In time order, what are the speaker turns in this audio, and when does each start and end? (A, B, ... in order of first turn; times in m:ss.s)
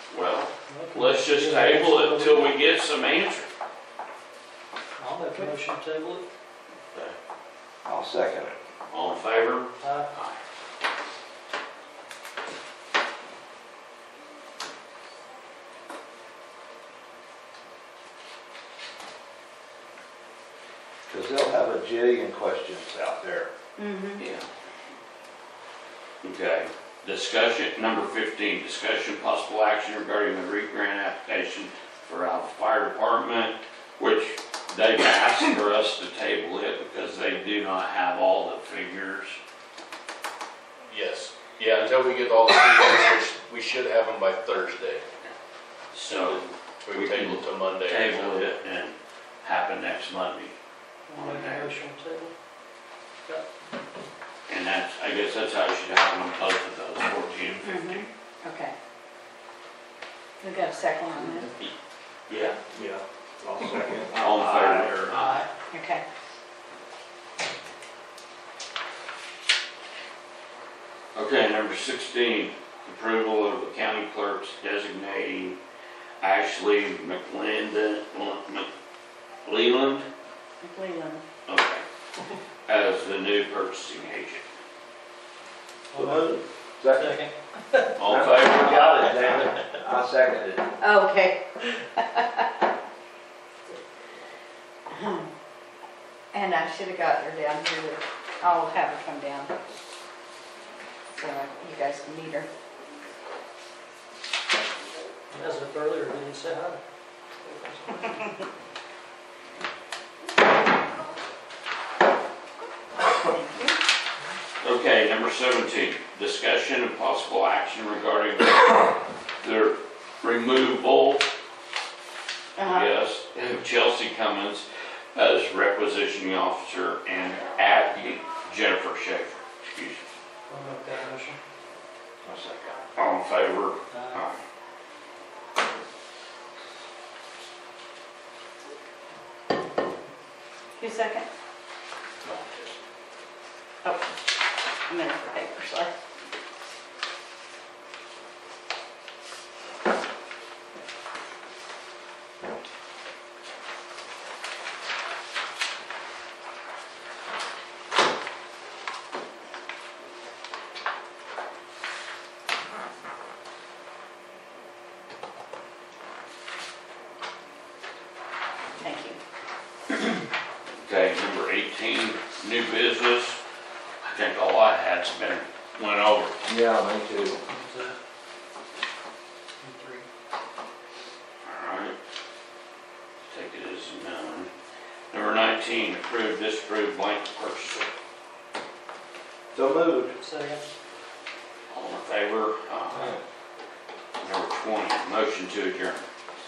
0:00.1-0:03.5 A
0:00.7-0:02.5 B
0:05.0-0:06.2 B
0:07.8-0:08.5 C
0:08.9-0:10.4 A
0:09.8-0:10.1 B
0:21.1-0:23.5 C
0:23.8-0:24.2 D
0:24.2-0:24.5 A
0:26.2-0:39.4 A
0:40.9-0:45.0 E
0:45.9-0:50.5 A
0:46.8-0:48.5 E
0:51.1-0:52.3 B
0:51.2-0:51.8 A
0:54.5-0:58.0 A
0:57.6-0:58.7 D
1:00.4-1:01.5 D
1:02.3-1:02.6 A
1:02.7-1:05.1 C
1:04.2-1:05.5 A
1:05.7-1:06.0 D
1:11.1-1:15.6 A
1:16.2-1:18.7 A
1:19.4-1:20.0 A
1:20.6-1:21.2 D
1:21.5-1:21.8 A
1:22.7-1:24.4 A
1:25.9-1:26.4 B
1:25.9-1:27.2 C
1:26.9-1:27.9 B
1:28.0-1:29.3 A
1:28.0-1:30.7 C
1:30.8-1:32.6 D
1:34.9-1:35.3 D
1:36.3-1:39.5 D
1:41.1-1:42.5 D
1:45.3-1:46.8 B
1:47.4-1:48.5 B
1:53.3-1:53.8 D
1:54.6-2:01.2 A
2:02.6-2:02.9 D
2:02.6-2:10.0 A
2:10.5-2:11.4 B
2:12.2-2:12.8 C
2:12.9-2:14.4 A
2:13.9-2:14.2 B
2:20.8-2:21.3 D
2:22.2-2:22.7 A
2:23.8-2:24.1 D
2:24.9-2:25.9 D
2:48.8-2:49.2 D
2:50.7-2:53.4 A
2:54.0-2:56.4 A
2:56.5-2:57.4 C
2:57.4-2:58.0 B
2:59.6-3:00.0 B
3:01.4-3:02.0 A
3:03.3-3:04.5 A
3:05.1-3:07.9 A
3:09.5-3:10.1 C
3:10.2-3:10.6 B
3:11.7-3:13.1 A
3:12.9-3:13.2 C
3:14.2-3:16.0 A